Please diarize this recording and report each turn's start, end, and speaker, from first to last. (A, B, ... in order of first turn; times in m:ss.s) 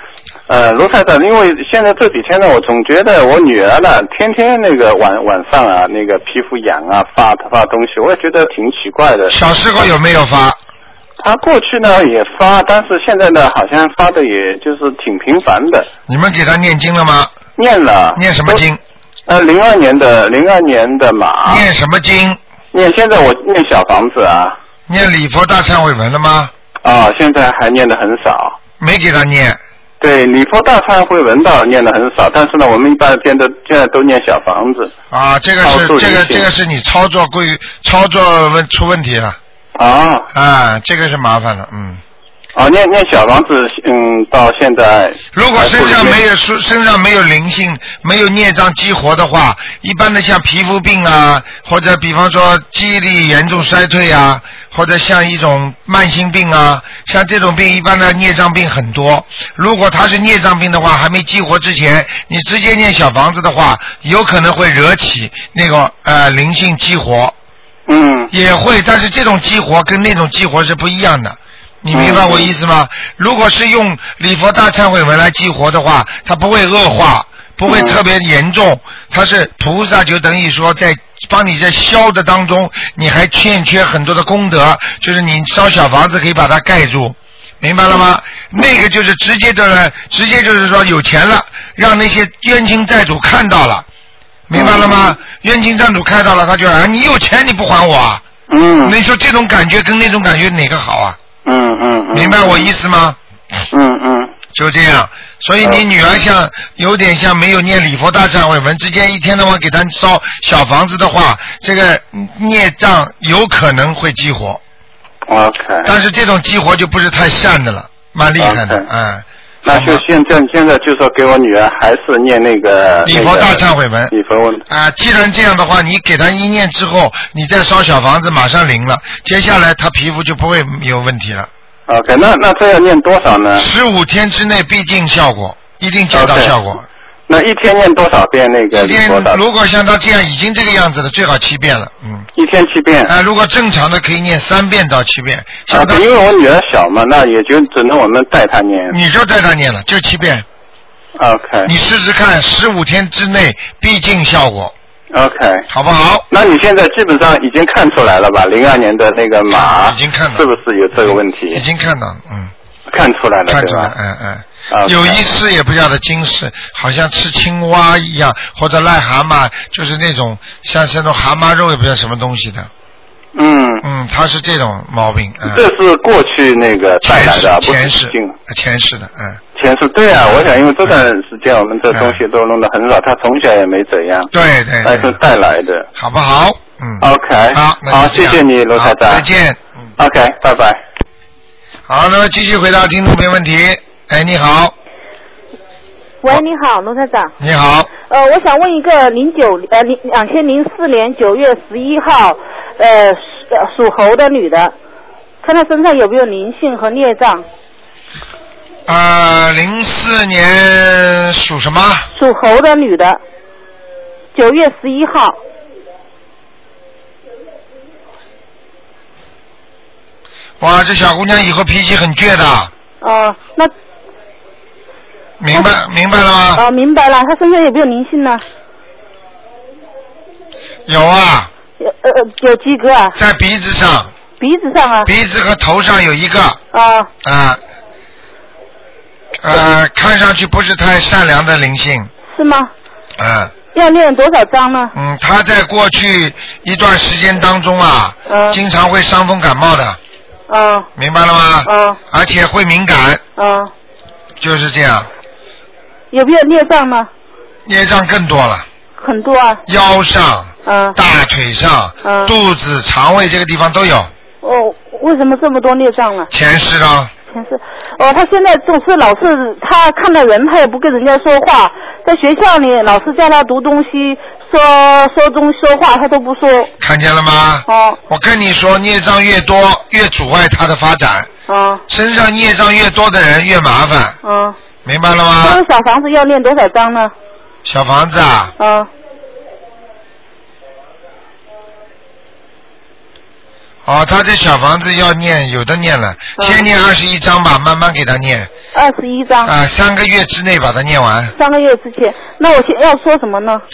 0:00.5-0:09.4 A
0:09.3-0:10.6 B
0:11.2-0:15.9 A
0:16.1-0:17.3 B
0:17.6-0:18.6 A
0:18.2-0:18.8 B
0:19.3-0:21.6 A
0:21.4-0:22.4 B
0:22.7-0:24.6 A
0:24.9-0:26.5 B
0:26.8-0:28.6 A
0:28.8-0:29.6 B
0:30.0-0:34.9 A
0:35.1-0:39.4 B
0:35.6-0:36.5 A
0:39.8-0:40.3 A
0:40.3-0:42.0 B
0:42.6-0:46.2 A
0:45.3-1:07.4 B
1:07.9-1:08.3 A
1:08.3-1:33.9 B
1:11.9-1:12.5 A
1:17.7-1:18.0 A
1:34.5-1:38.2 B
1:34.5-1:35.1 A
1:38.5-1:39.0 A
1:38.8-1:41.2 B
1:41.4-1:42.7 A
1:42.1-1:43.2 B
1:43.7-1:44.4 A
1:44.5-1:54.6 B
1:55.3-1:55.9 A
1:55.8-2:00.0 B
1:58.4-1:58.9 A
1:59.6-2:04.6 A
2:03.0-2:04.1 B
2:04.7-2:11.5 B
2:11.9-2:13.7 A
2:13.6-2:16.9 B
2:16.1-2:16.6 A
2:17.3-2:19.4 A
2:18.7-2:22.3 B
2:22.4-2:23.1 A
2:23.1-2:26.0 B
2:25.7-2:29.0 A
2:28.9-2:30.5 B
2:31.2-2:31.7 A
2:31.7-2:34.7 B
2:35.1-2:35.7 A
2:35.7-2:36.3 B
2:36.3-2:41.6 A
2:39.5-2:42.5 B
2:42.9-2:43.9 A
2:43.5-2:52.7 B
2:44.7-2:45.2 A
2:53.4-2:53.8 A
2:53.8-2:55.6 B
2:55.5-2:58.4 A
2:57.0-2:59.4 B
2:59.6-3:04.3 A
3:00.3-3:01.0 B
3:01.9-3:02.2 B
3:04.3-3:05.2 B
3:04.8-3:05.9 A
3:06.0-3:09.6 B
3:07.0-3:09.2 A
3:10.0-3:10.8 A
3:11.9-3:14.7 B
3:16.2-3:17.3 C
3:17.4-3:17.9 B
3:18.1-3:24.8 C
3:25.4-3:27.5 C
3:28.9-3:32.1 B
3:32.1-3:33.2 C
3:34.3-3:35.4 C
3:40.6-3:42.7 B
3:43.0-3:43.7 C
3:45.4-3:46.6 B
3:46.6-3:48.4 C
3:50.9-3:51.5 B
3:51.8-3:53.2 C
3:53.2-3:54.1 B
3:54.4-3:55.1 C
3:55.1-3:56.6 B
3:56.7-3:57.1 C
3:57.2-3:57.6 B
3:59.4-4:02.1 B
4:02.3-4:02.7 C
4:03.2-4:03.5 B
4:03.7-4:04.9 C
4:04.9-4:10.0 B
4:08.3-4:08.6 C
4:10.5-4:10.9 C
4:11.0-4:13.2 B
4:11.6-4:12.0 C
4:13.4-4:13.7 C
4:14.4-4:15.1 B
4:16.1-4:17.1 C
4:17.7-4:18.7 B
4:19.0-4:19.6 C
4:19.7-4:24.1 B
4:20.7-4:21.0 C
4:22.0-4:22.3 C
4:24.4-4:26.3 C
4:26.3-4:27.1 B
4:27.3-4:36.7 C
4:36.8-4:41.3 B
4:37.7-4:38.0 C
4:41.5-4:41.8 C
4:41.9-4:44.2 B
4:44.2-4:44.6 C
4:44.8-4:45.6 B
4:45.4-4:47.1 C
4:47.6-4:48.5 B
4:48.6-4:48.9 C
4:53.8-4:58.5 B
4:56.4-4:56.6 C
4:58.7-4:59.5 C
4:59.4-5:01.3 B
5:01.4-5:03.6 C